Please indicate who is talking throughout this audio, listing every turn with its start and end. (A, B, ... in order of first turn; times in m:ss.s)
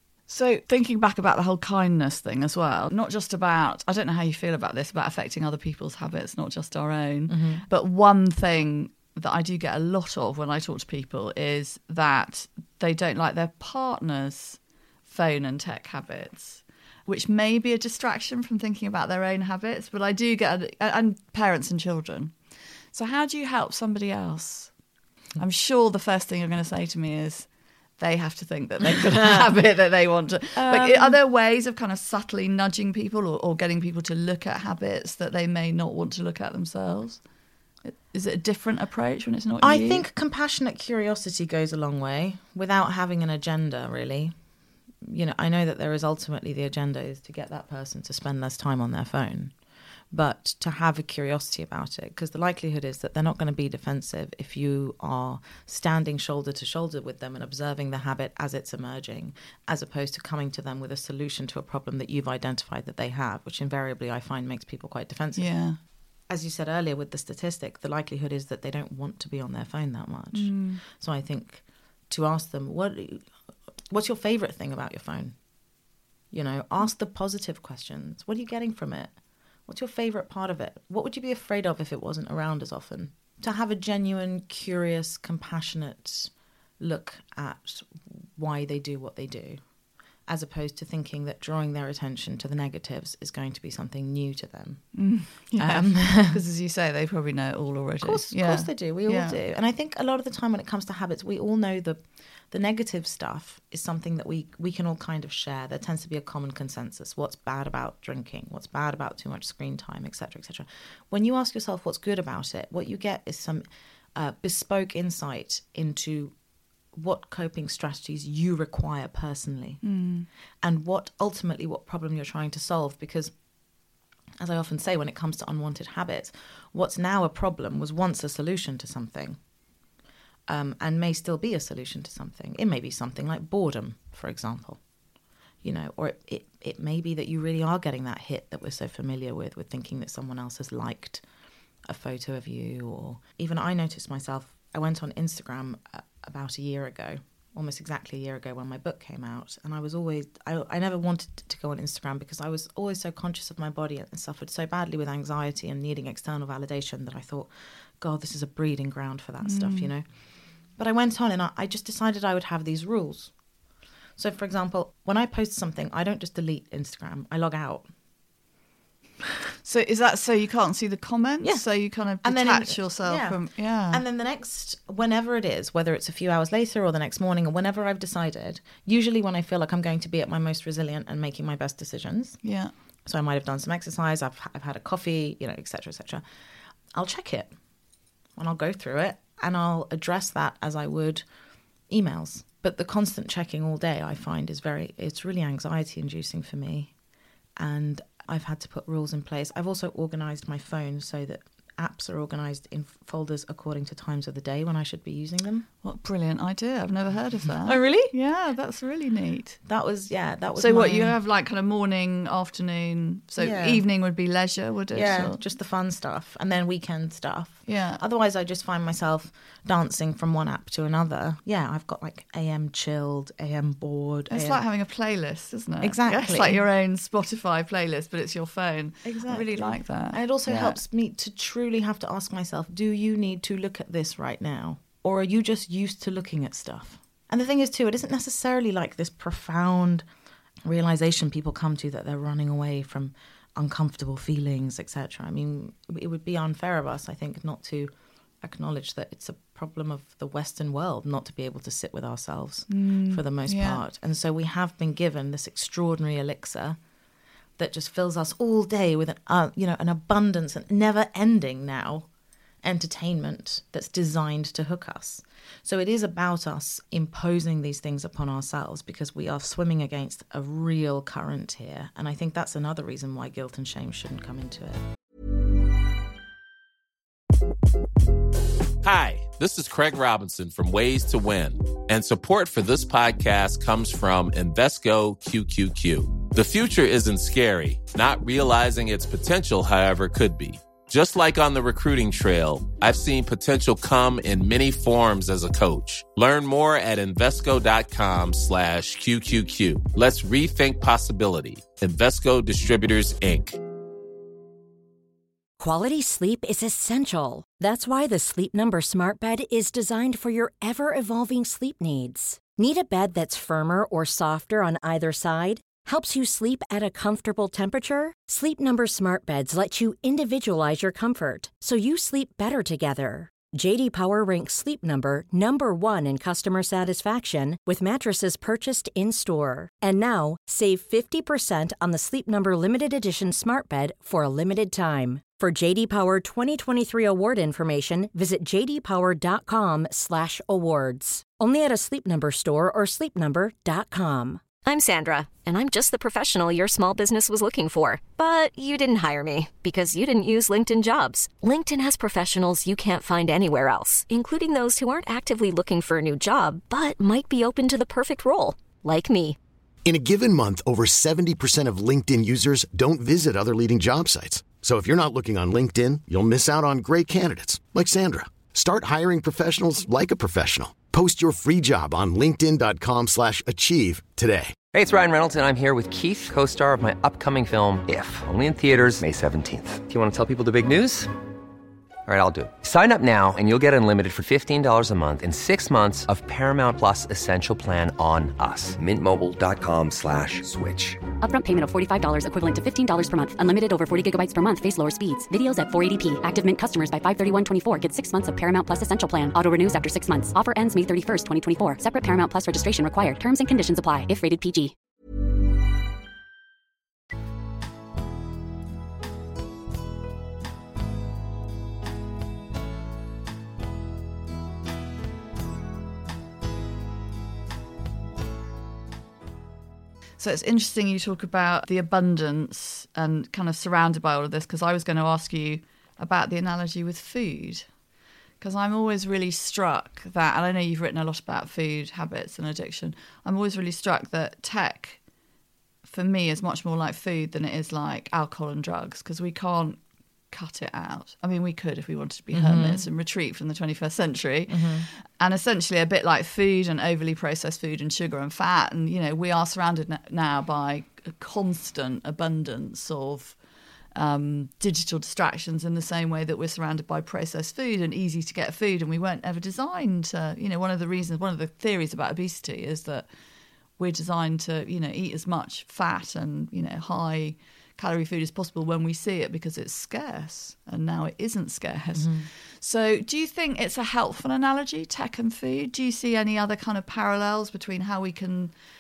0:00.3-0:22.4 A
0:07.3-0:07.6 B
0:22.9-0:24.7 A
0:25.4-0:37.2 A
0:30.7-0:31.1 B
0:37.8-0:40.0 A
0:39.6-0:44.4 B
0:45.0-0:49.5 B
0:50.1-1:05.5 B
1:05.4-1:05.8 A
1:06.3-1:13.3 B
1:10.3-1:10.8 A
1:13.9-1:15.4 B
1:16.3-1:19.2 B
1:19.7-1:29.6 B
1:30.3-1:36.4 B
1:34.9-1:39.4 A
1:38.0-1:53.6 B
1:54.2-1:56.4 B
1:56.9-1:59.9 B
1:59.8-2:00.3 A
2:00.6-2:03.3 B
2:04.4-2:09.4 B
2:10.5-2:14.8 B
2:15.6-2:21.2 B
2:21.9-2:40.1 B
2:39.4-2:39.9 A
2:40.8-2:43.3 B
2:44.2-2:47.9 B
2:49.6-2:54.0 A
2:52.2-3:02.4 B
3:02.4-3:02.7 A
3:03.0-3:06.2 B
3:06.9-3:07.6 B
3:08.4-3:11.3 B
3:11.9-3:16.9 B
3:17.6-3:25.7 B
3:25.8-3:29.6 A
3:27.6-3:28.1 B
3:29.6-3:31.2 B
3:30.6-3:35.4 A
3:33.4-3:33.8 B
3:34.9-3:44.6 B
3:37.7-3:38.0 A
3:44.3-3:50.8 A
3:45.8-3:46.6 B
3:49.0-4:00.1 B
4:00.7-4:16.8 B
4:12.7-4:13.8 A
4:17.6-4:22.1 B
4:22.6-4:34.8 B
4:38.8-5:03.6 C
5:05.6-5:44.5 D
5:44.6-5:59.4 E
5:59.8-6:14.6 F
6:14.7-6:21.1 G
6:22.1-6:31.0 G
6:31.2-6:44.8 H
7:00.2-7:07.7 A
7:08.4-7:15.0 A
7:15.8-7:19.8 A
7:20.3-7:33.4 A
7:22.3-7:22.8 B
7:24.5-7:24.9 B
7:34.0-7:43.1 A
7:43.8-7:58.5 A
7:52.0-7:52.3 B